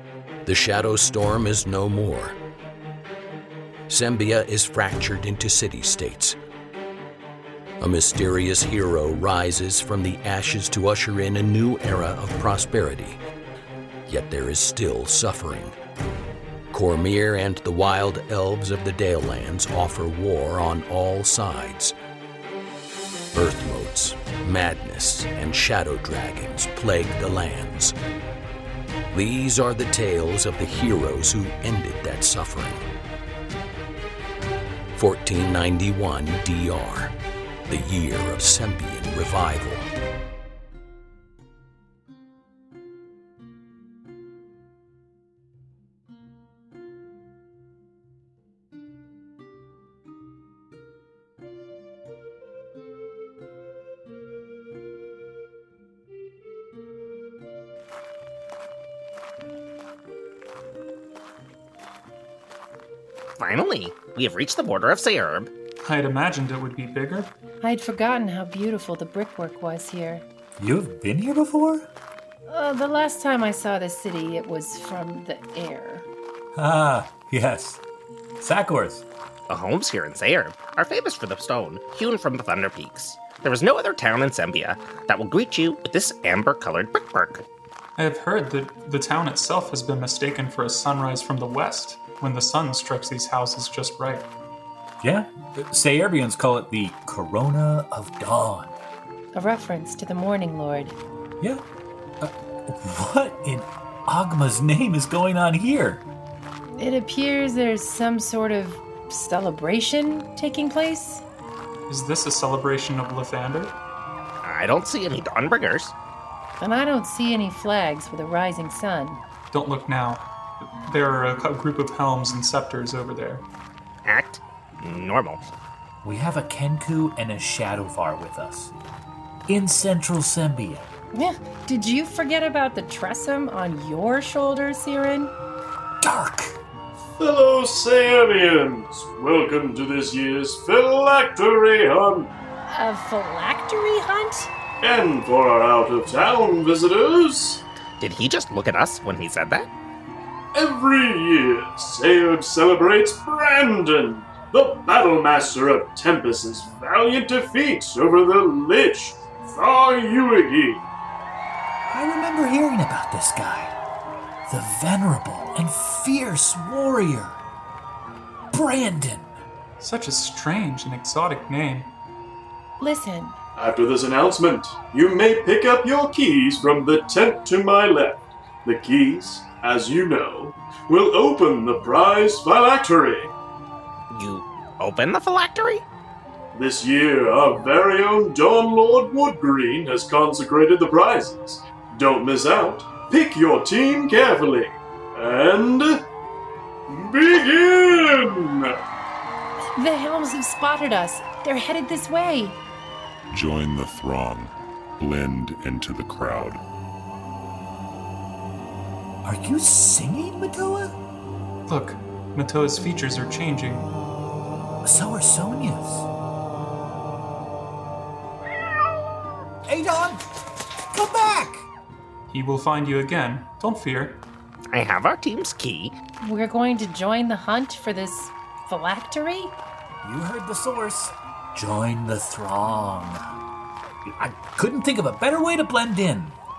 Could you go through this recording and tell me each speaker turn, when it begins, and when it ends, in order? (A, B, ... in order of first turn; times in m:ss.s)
0:00.5-0:02.4 A
0:03.9-0:06.4 A
0:07.8-0:13.2 A
0:14.1-0:15.7 A
0:16.7-0:21.9 A
0:23.3-0:27.9 A
0:29.1-0:32.8 A
0:35.0-0:37.1 A
0:37.7-0:39.9 A
1:03.4-1:05.5 B
1:05.8-1:07.3 C
1:07.6-1:10.2 D
1:10.6-1:11.9 E
1:12.5-1:16.1 D
1:16.6-1:17.8 E
1:18.4-1:19.0 E
1:19.5-1:27.4 B
1:28.0-1:34.3 C
1:35.0-1:38.7 E
1:39.3-1:41.0 D
1:42.2-1:46.0 E
1:46.8-1:51.2 D
1:51.9-1:53.8 C
1:54.4-1:55.9 B
1:56.6-1:59.2 D
1:59.5-2:03.4 C
2:04.1-2:05.5 B
2:06.0-2:08.7 E
2:09.5-2:10.8 E
2:11.1-2:15.3 D
2:16.0-2:16.6 E
2:17.2-2:22.3 F
2:22.7-2:24.5 D
2:24.8-2:27.6 F
2:28.0-2:29.7 B
2:30.5-2:40.8 F
2:41.9-2:43.8 E
2:44.5-2:47.4 E
2:48.5-2:49.4 E
2:49.8-2:51.9 C
2:52.8-2:53.4 D
2:53.6-3:03.3 F
3:04.1-3:05.8 B
3:06.5-3:16.0 F
3:16.9-3:18.8 F
3:19.8-3:22.6 D
3:23.3-3:26.6 G
3:29.2-3:31.0 E
3:31.7-3:33.9 C
3:34.8-3:36.1 E
3:39.7-3:40.2 E
3:40.9-3:41.7 E
3:42.3-3:44.2 C
3:44.7-3:46.0 B
3:46.2-3:49.6 D
3:50.0-3:53.2 E
3:54.2-3:56.4 E